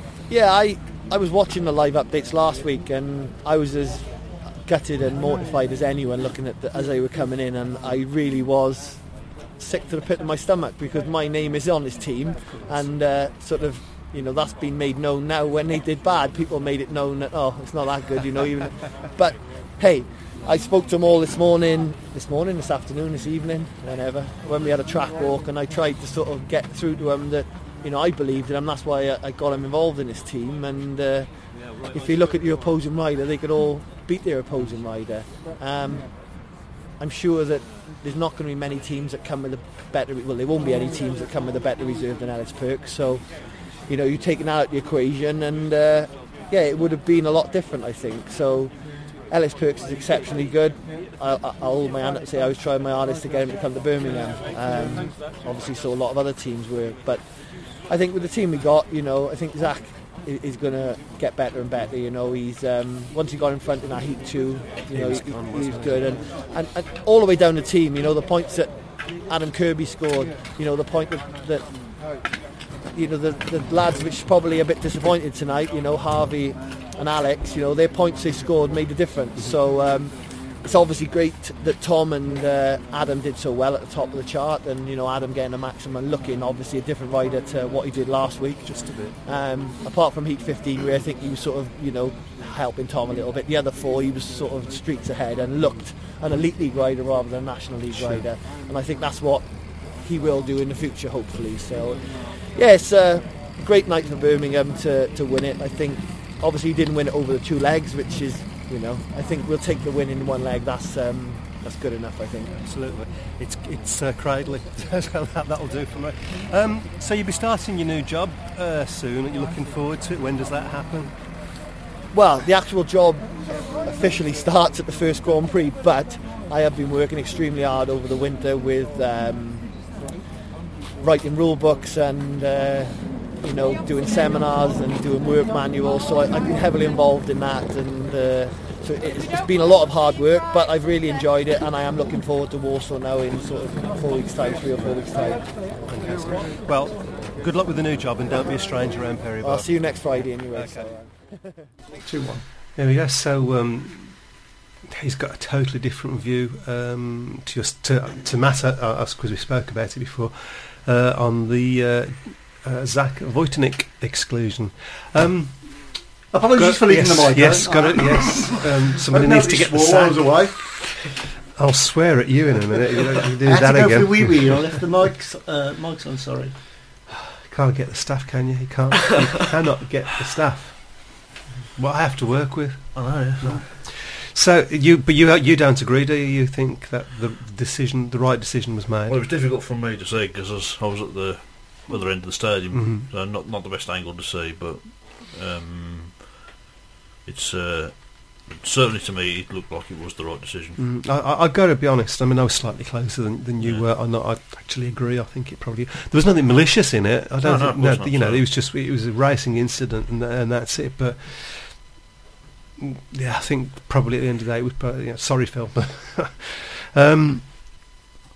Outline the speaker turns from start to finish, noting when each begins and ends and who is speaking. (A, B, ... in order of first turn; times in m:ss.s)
0:00.3-1:12.1 A
1:04.9-1:06.2 B
1:12.9-1:52.6 A
1:28.6-1:29.2 B
1:37.9-1:38.2 B
1:52.6-2:01.4 B
2:02.1-2:09.9 A
2:11.0-2:26.5 A
2:25.8-2:30.9 B
2:29.4-2:31.6 A
2:32.0-2:32.4 C
2:32.7-2:50.9 B
2:46.3-2:50.9 C
2:51.5-2:54.7 B
2:53.4-2:56.6 C
2:57.5-3:01.2 B
3:01.7-3:09.2 B
3:02.9-3:03.7 D
3:09.1-3:16.4 D
3:12.7-3:13.1 B
3:17.2-3:20.8 D
3:20.8-3:32.0 B
3:23.6-3:23.9 D
3:27.4-3:28.5 D
3:32.8-3:37.8 B